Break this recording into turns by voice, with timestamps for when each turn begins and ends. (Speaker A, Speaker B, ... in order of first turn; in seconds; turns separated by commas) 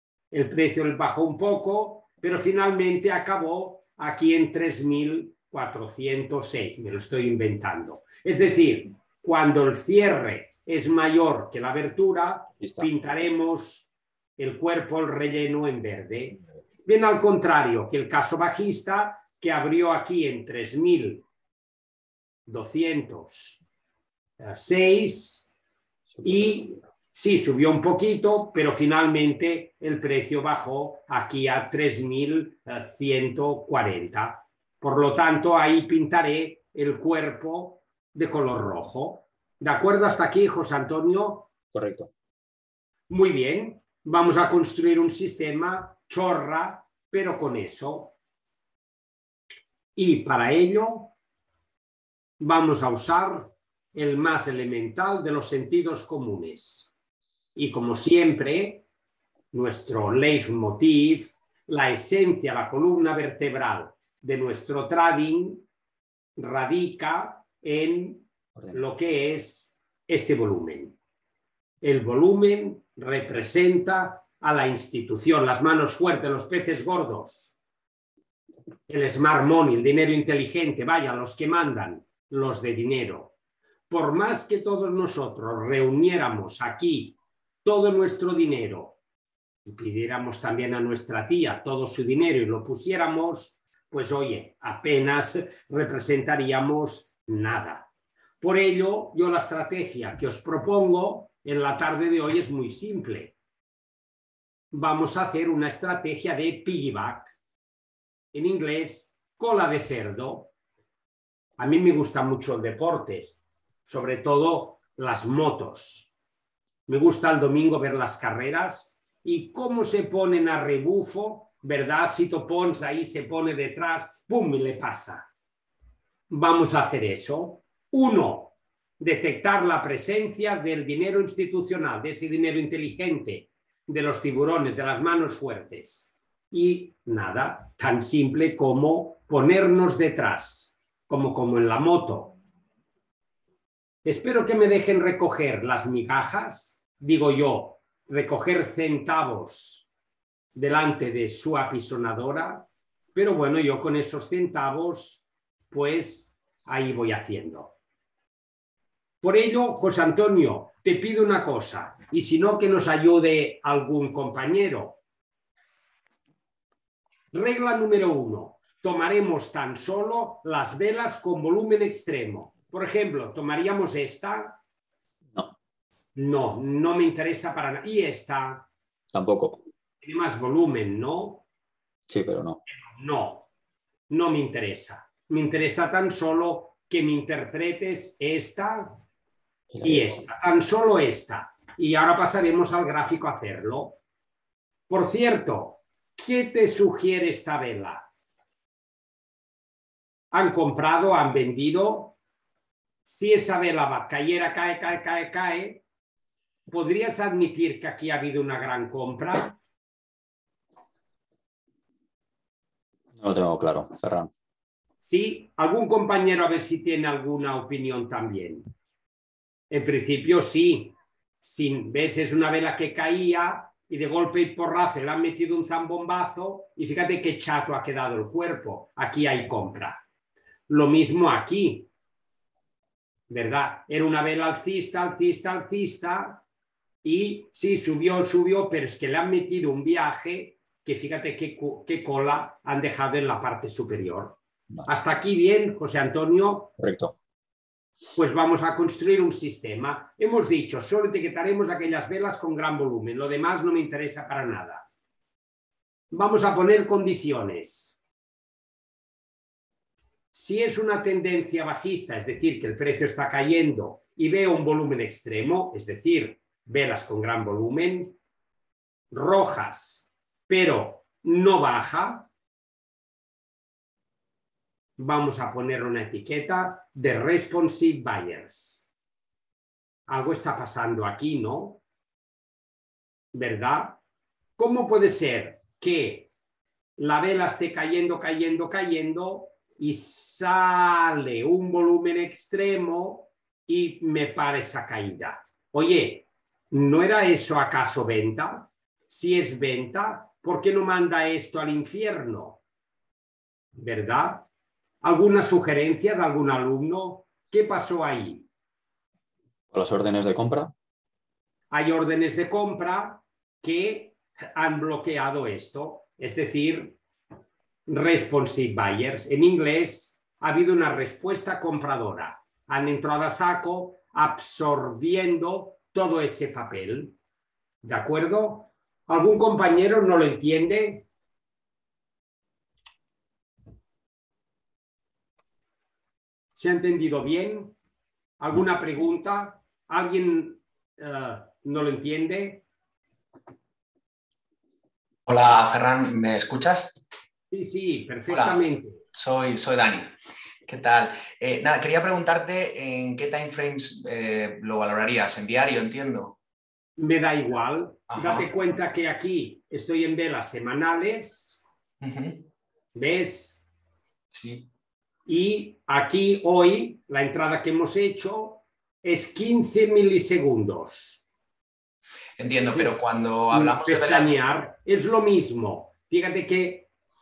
Speaker A: 0.3-21.2, Speaker B: 12.6-12.9, Speaker A: 22.5-23.6, Speaker A: 24.4-25.5, Speaker B: 26.1-26.6, Speaker A: 26.2-41.5, Speaker B: 41.7-42.1, Speaker A: 43.1-48.1, Speaker A: 50.0-51.1, Speaker A: 52.4-56.9, Speaker A: 57.5-58.8, Speaker A: 59.5-65.7, Speaker A: 66.4-71.0, Speaker A: 71.8-77.6, Speaker A: 78.9-83.3, Speaker A: 83.9-89.0, Speaker A: 89.7-97.9, Speaker A: 98.4-103.3, Speaker A: 104.7-107.4, Speaker A: 108.3-110.5, Speaker A: 111.6-116.1, Speaker A: 116.9-125.3, Speaker A: 126.3-142.3, Speaker A: 144.0-149.9, Speaker A: 150.6-157.8, Speaker A: 159.2-165.0, Speaker A: 167.3-174.6, Speaker A: 176.2-178.7, Speaker B: 179.1-179.6, Speaker A: 180.0-181.4, Speaker B: 182.1-182.6, Speaker A: 182.7-183.5, Speaker A: 184.1-189.0, Speaker B: 189.7-190.2, Speaker A: 189.8-194.0, Speaker A: 194.9-198.1, Speaker A: 200.3-202.2, Speaker A: 203.1-205.8, Speaker A: 206.7-209.6, Speaker B: 213.2-214.3, Speaker A: 215.0-218.7, Speaker A: 219.7-230.0, Speaker A: 230.7-231.9, Speaker A: 233.3-236.4, Speaker A: 237.0-246.7, Speaker B: 246.8-247.2, Speaker A: 248.2-254.9, Speaker A: 256.1-258.0, Speaker A: 260.3-268.1, Speaker A: 269.1-272.3, Speaker A: 275.0-278.9, Speaker A: 280.1-281.8, Speaker A: 283.3-284.0, Speaker A: 284.6-286.3, Speaker A: 287.0-302.6, Speaker A: 303.8-304.5, Speaker A: 305.0-308.5, Speaker B: 309.7-310.7, Speaker A: 311.7-317.0, Speaker A: 317.9-327.2, Speaker A: 327.8-331.1, Speaker A: 336.5-337.7, Speaker A: 338.4-342.6, Speaker C: 345.3-347.0, Speaker A: 347.5-349.0, Speaker C: 348.3-356.4, Speaker A: 357.0-361.6, Speaker C: 358.1-358.5, Speaker C: 362.0-362.5, Speaker A: 362.9-363.6, Speaker C: 364.3-364.7, Speaker A: 365.3-371.3, Speaker C: 372.4-374.4, Speaker A: 372.7-373.0, Speaker A: 373.5-376.9